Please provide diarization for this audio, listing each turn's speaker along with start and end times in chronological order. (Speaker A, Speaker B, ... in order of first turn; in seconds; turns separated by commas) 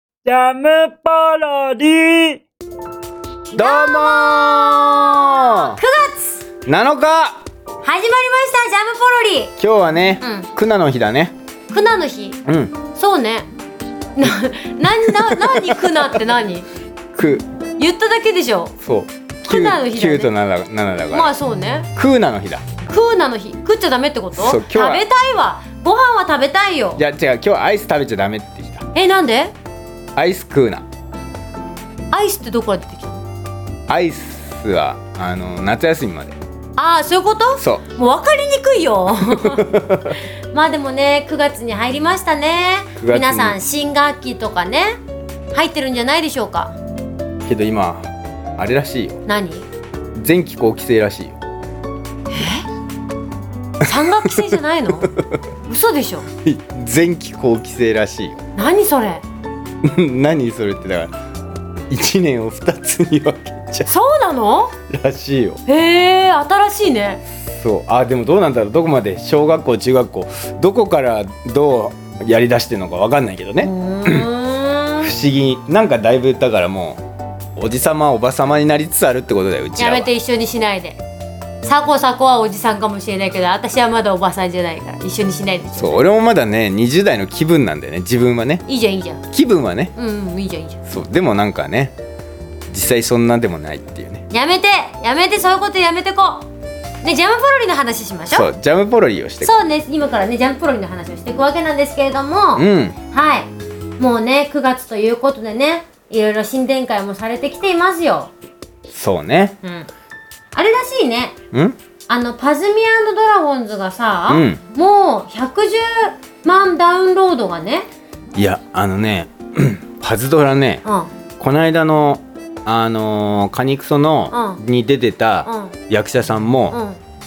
Speaker A: 0.2-2.4, Speaker B: 3.5-6.5, Speaker C: 3.6-5.8, Speaker C: 6.7-7.4, Speaker B: 7.8-9.5, Speaker C: 9.6-11.3, Speaker B: 10.2-10.5, Speaker B: 11.7-12.4, Speaker C: 12.5-12.8, Speaker B: 12.9-13.5, Speaker B: 14.2-16.7, Speaker C: 15.1-16.0, Speaker C: 17.1-17.4, Speaker B: 17.8-18.7, Speaker C: 18.8-21.3, Speaker B: 19.4-20.3, Speaker B: 21.1-21.9, Speaker C: 21.9-22.6, Speaker B: 22.8-27.0, Speaker C: 24.3-25.1, Speaker C: 27.0-28.9, Speaker B: 28.9-29.5, Speaker C: 30.2-30.9, Speaker B: 32.1-33.2, Speaker C: 33.9-36.4, Speaker B: 36.8-39.7, Speaker C: 37.6-37.9, Speaker C: 39.3-40.2, Speaker B: 40.5-45.0, Speaker C: 43.0-43.6, Speaker B: 45.5-46.8, Speaker C: 47.5-49.2, Speaker B: 49.3-49.7, Speaker C: 50.2-51.4, Speaker B: 52.3-52.6, Speaker B: 53.8-55.1, Speaker B: 55.7-56.3, Speaker C: 56.4-58.4, Speaker B: 58.6-59.2, Speaker C: 59.8-61.1, Speaker C: 61.9-63.9, Speaker B: 63.9-64.7, Speaker C: 64.9-65.6, Speaker B: 65.7-67.2, Speaker C: 67.6-74.3, Speaker B: 73.6-75.1, Speaker C: 75.0-77.0, Speaker C: 77.6-80.1, Speaker B: 79.8-81.0, Speaker B: 81.6-86.1, Speaker C: 85.7-88.6, Speaker B: 88.7-89.2, Speaker C: 89.3-89.9, Speaker B: 90.0-90.8, Speaker C: 90.9-92.0, Speaker C: 92.7-94.2, Speaker B: 94.3-96.5, Speaker B: 97.0-98.5, Speaker C: 98.3-99.6, Speaker B: 99.4-108.3, Speaker C: 102.5-103.0, Speaker C: 108.9-109.6, Speaker B: 109.6-109.9, Speaker B: 110.5-111.3, Speaker B: 112.1-117.9, Speaker C: 114.3-114.6, Speaker C: 118.4-120.8, Speaker B: 120.8-121.1, Speaker C: 121.4-126.8, Speaker B: 124.3-124.6, Speaker B: 125.5-125.7, Speaker B: 126.7-127.0